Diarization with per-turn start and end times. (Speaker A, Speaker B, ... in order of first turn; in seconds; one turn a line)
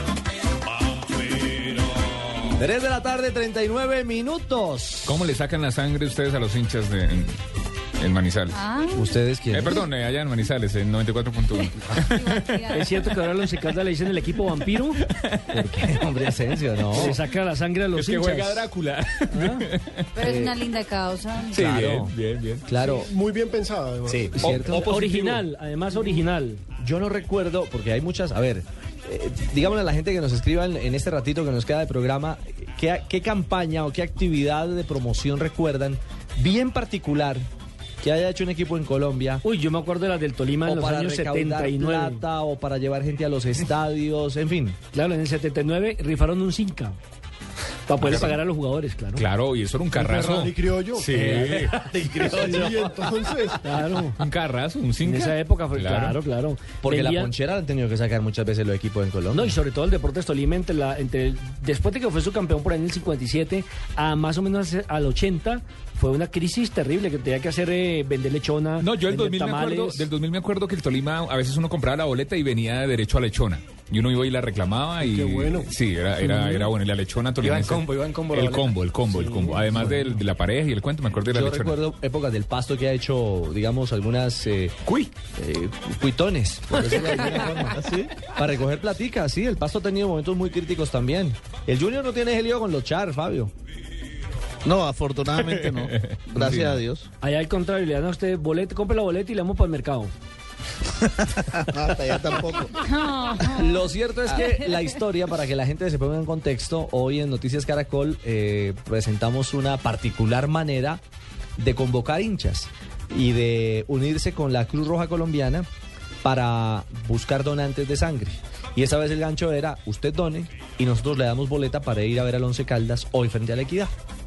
Speaker A: 2.5-5.2
Speaker B: 5.0-7.4
Speaker B: 8.0-8.7
Speaker C: 8.5-9.1
Speaker A: 8.9-9.9
Speaker B: 9.5-12.6
Speaker C: 12.2-13.1
Speaker D: 12.7-15.0
Speaker B: 15.2-15.9
Speaker A: 15.5-17.2
Speaker D: 17.0-18.7
Speaker B: 17.9-20.1
Speaker D: 19.3-19.7
Speaker C: 20.1-21.7
Speaker A: 20.2-20.6
Speaker A: 21.5-22.1
Speaker B: 21.5-22.7
Speaker A: 22.7-23.0
Speaker E: 22.8-24.6
Speaker A: 24.1-25.4
Speaker B: 24.4-25.4
Speaker D: 24.6-26.6
Speaker A: 26.8-37.5
Speaker A: 38.0-39.4
Speaker D: 39.4-42.2
Speaker A: 40.6-44.8
Speaker D: 44.9-47.0
Speaker D: 47.9-49.3
Speaker B: 48.0-48.4
Speaker B: 49.2-51.9
Speaker E: 50.0-51.2
Speaker F: 51.1-53.6
Speaker E: 52.2-53.6
Speaker D: 53.6-54.2
Speaker B: 53.9-56.2
Speaker D: 55.0-57.3
Speaker A: 56.8-59.6
Speaker D: 59.3-70.1
Speaker B: 68.8-81.8
Speaker E: 75.0-75.7
Speaker F: 76.2-76.7
Speaker F: 77.4-79.7
Speaker A: 79.7-80.2
Speaker A: 81.3-84.8
Speaker B: 84.8-85.1
Speaker A: 85.3-93.5
Speaker F: 86.8-88.2
Speaker F: 94.7-97.1
Speaker B: 95.4-96.8
Speaker D: 97.2-100.1
Speaker F: 101.2-102.8
Speaker C: 102.8-104.7
Speaker A: 103.4-111.0
Speaker A: 111.6-115.7
Speaker A: 116.2-123.9